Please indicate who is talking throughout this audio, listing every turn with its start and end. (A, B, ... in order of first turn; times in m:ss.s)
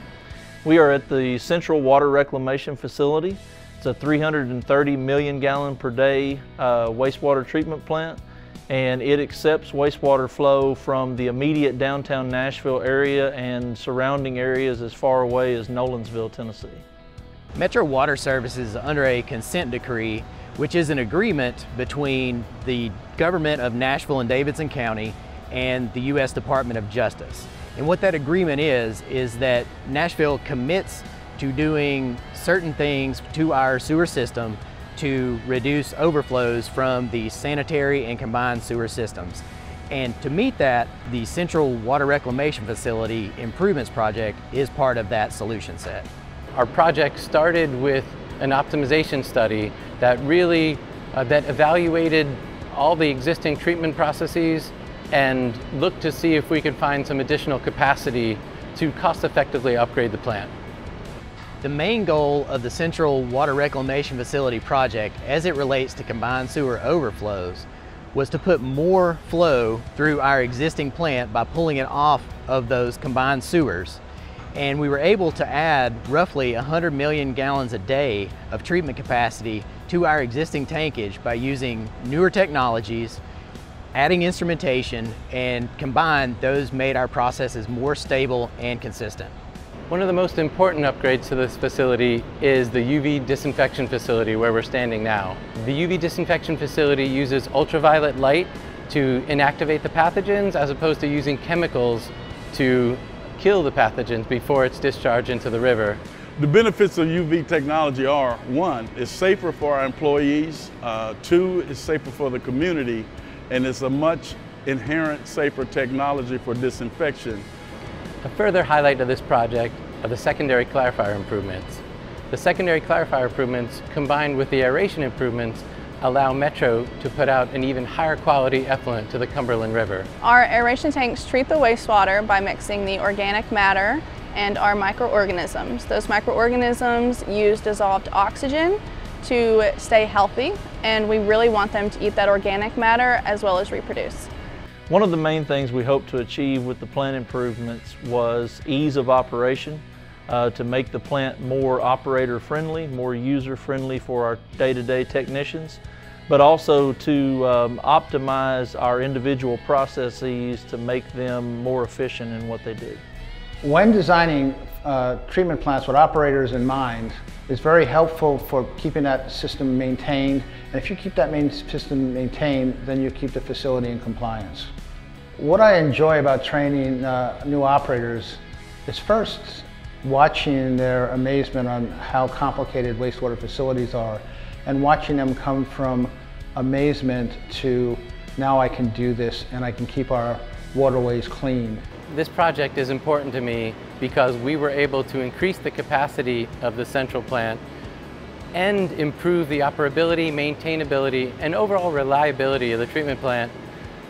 0:00.6-0:16.8 A
0:17.6-0:46.1 B
0:46.5-1:00.5 C
1:01.6-1:14.0 B
1:14.6-1:23.2 B
1:24.0-1:29.3 B
1:29.9-1:46.0 C
1:46.4-1:57.5 D
1:58.2-2:10.1 C
2:10.2-2:24.3 E
2:24.9-2:43.0 A
2:43.6-2:54.7 F
2:55.4-3:11.8 F
3:12.1-3:17.6 C
3:18.5-3:23.5 C